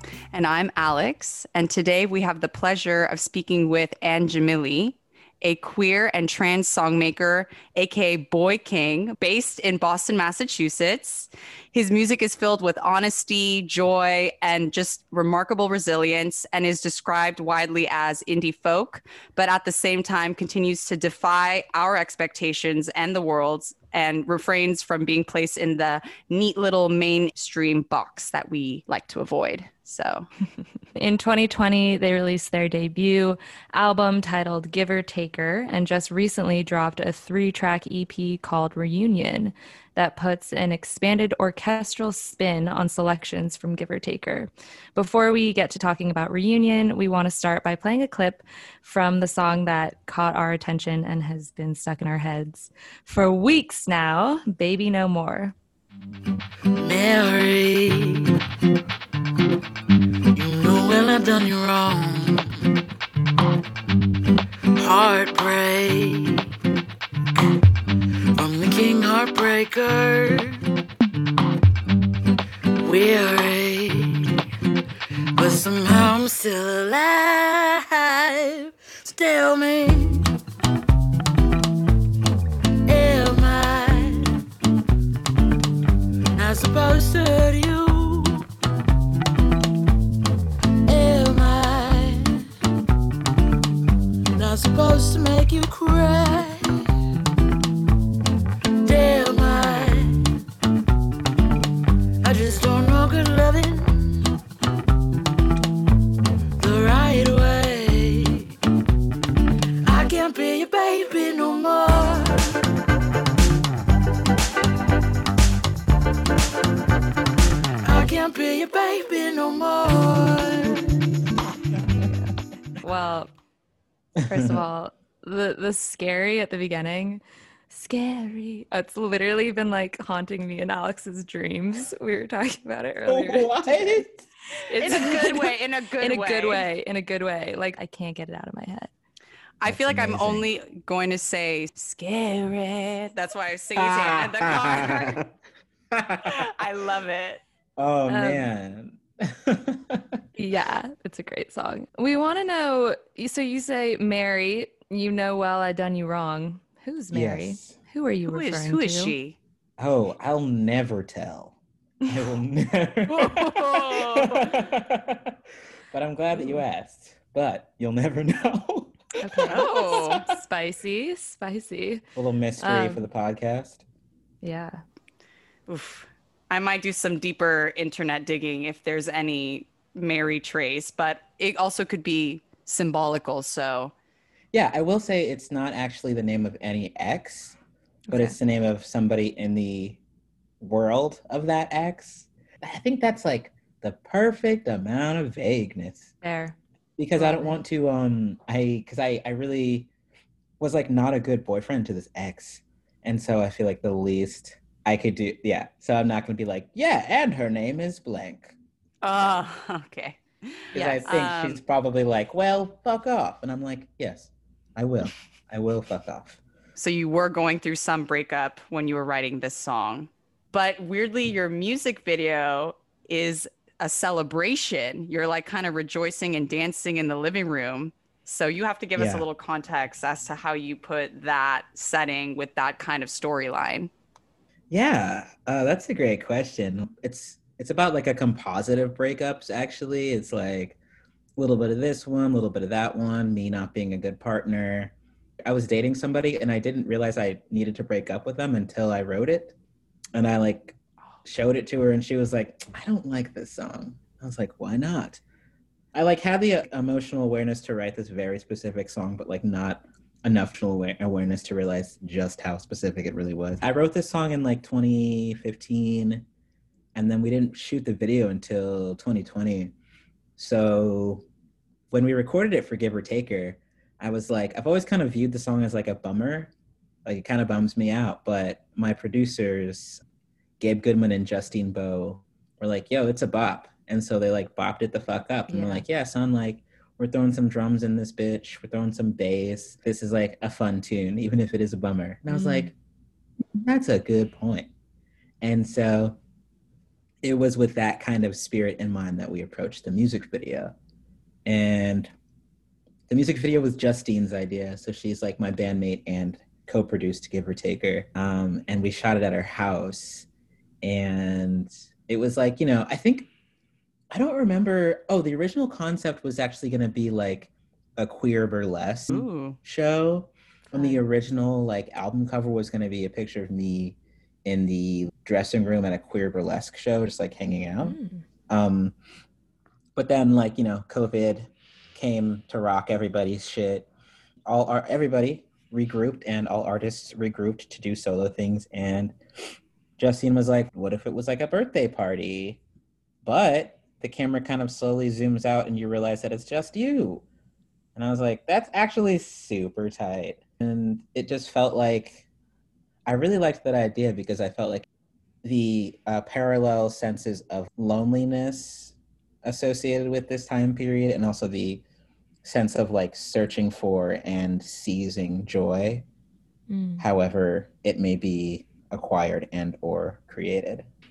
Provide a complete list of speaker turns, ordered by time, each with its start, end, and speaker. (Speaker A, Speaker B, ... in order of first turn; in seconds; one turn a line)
Speaker A: 0.3-30.3
Speaker B: 30.9-55.5
Speaker C: 56.8-58.3
Speaker C: 60.4-62.6
Speaker C: 64.8-66.4
Speaker C: 68.4-70.6
Speaker C: 72.8-74.2
Speaker C: 75.3-80.2
Speaker C: 82.9-84.3
Speaker C: 86.3-88.4
Speaker C: 90.9-92.3
Speaker C: 94.3-96.7
Speaker C: 98.8-100.2
Speaker C: 102.2-104.3
Speaker C: 106.6-108.5
Speaker C: 109.8-112.5
Speaker C: 117.8-121.0
Speaker B: 122.8-123.3
Speaker D: 124.2-124.6
Speaker B: 124.2-134.1
Speaker D: 133.1-134.3
Speaker B: 134.6-138.9
Speaker A: 134.8-136.7
Speaker A: 139.6-145.2
Speaker D: 139.7-140.4
Speaker D: 143.8-145.2
Speaker D: 145.9-146.5
Speaker A: 146.2-147.4
Speaker D: 147.8-150.2
Speaker B: 148.1-148.5
Speaker B: 150.3-159.1
Speaker D: 157.1-157.8
Speaker A: 158.3-159.4
Speaker D: 159.8-161.6
Speaker D: 162.1-165.4
Speaker A: 163.1-164.5
Speaker D: 165.9-170.2
Speaker B: 169.2-172.0
Speaker A: 169.5-170.2
Speaker D: 172.2-173.8
Speaker B: 172.6-173.0
Speaker B: 174.4-174.8
Speaker A: 175.7-183.9
Speaker D: 184.5-187.6
Speaker B: 188.1-188.3
Speaker D: 188.1-190.0
Speaker D: 190.6-196.1
Speaker B: 196.2-196.6
Speaker D: 197.0-199.9
Speaker B: 197.2-197.6
Speaker D: 200.6-208.5
Speaker A: 209.0-211.6
Speaker D: 210.7-216.4
Speaker A: 216.8-233.9
Speaker D: 228.9-229.3
Speaker D: 234.7-240.8
Speaker D: 241.4-249.5
Speaker D: 250.1-255.2
Speaker D: 255.9-266.2
Speaker D: 266.9-269.7
Speaker D: 270.4-271.2
Speaker D: 271.9-276.5
Speaker D: 277.0-280.0
Speaker D: 280.6-292.7
Speaker B: 285.5-285.8
Speaker B: 292.3-292.7
Speaker D: 293.5-294.7
Speaker D: 295.4-296.2
Speaker D: 297.2-300.7
Speaker D: 301.4-302.1
Speaker D: 303.1-310.3
Speaker D: 310.8-313.3
Speaker D: 314.1-328.0
Speaker A: 319.1-319.6
Speaker B: 320.7-321.0
Speaker B: 327.8-328.2
Speaker D: 328.5-328.9
Speaker D: 329.9-333.9
Speaker D: 334.4-339.2
Speaker D: 340.0-342.6
Speaker D: 343.2-347.2
Speaker D: 347.9-352.2
Speaker D: 353.1-354.8
Speaker D: 355.4-361.8
Speaker D: 362.4-366.0
Speaker B: 366.7-367.0
Speaker D: 367.0-370.9